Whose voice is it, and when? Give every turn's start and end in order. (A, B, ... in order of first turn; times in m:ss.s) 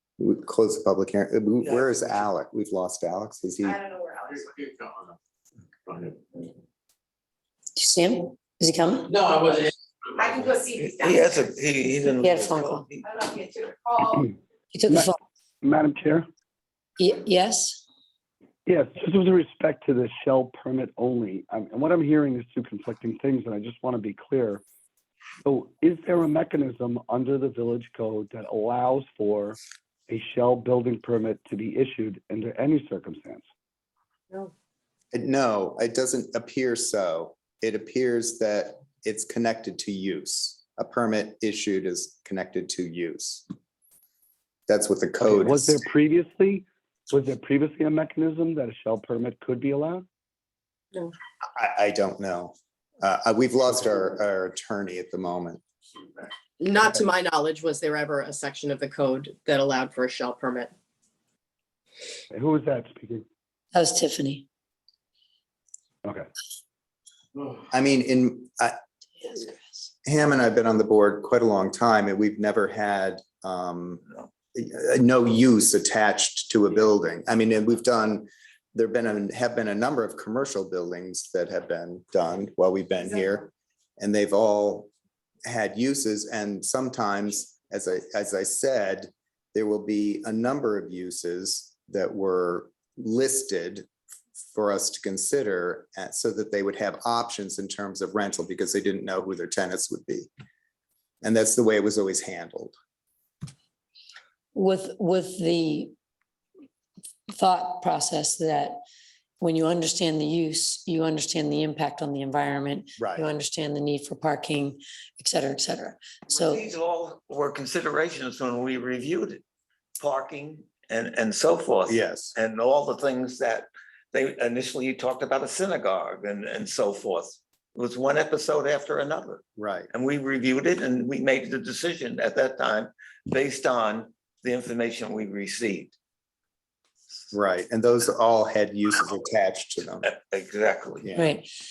0:00.2-0:03.8 A
0:01.6-0:02.2 B
0:03.6-0:04.7 C
0:07.8-0:09.2 D
0:10.2-0:11.6 C
0:10.7-0:13.0 B
0:12.2-0:12.9 D
0:13.0-0:14.3 C
0:14.7-0:15.2 D
0:15.6-0:16.3 E
0:17.0-0:17.8 D
0:18.7-0:24.6 E
0:25.4-0:33.5 E
0:35.1-0:43.4 A
0:44.7-0:45.8 A
0:45.2-0:50.0 E
0:51.6-0:55.6 A
0:56.6-1:00.7 F
1:02.3-1:03.2 E
1:03.7-1:04.5 D
1:07.7-1:08.8 A
1:10.0-1:24.9 A
1:25.4-1:33.9 A
1:34.5-1:40.3 A
1:41.2-1:42.7 A
1:44.5-1:45.9 D
1:47.3-1:48.8 D
1:49.4-1:56.6 D
1:53.0-1:53.3 A
1:56.3-1:59.4 B
2:00.0-2:15.9 B
2:01.9-2:02.4 A
2:09.6-2:09.9 A
2:17.3-2:20.1 A
2:20.0-2:21.1 B
2:21.0-2:21.3 A
2:21.2-2:21.5 D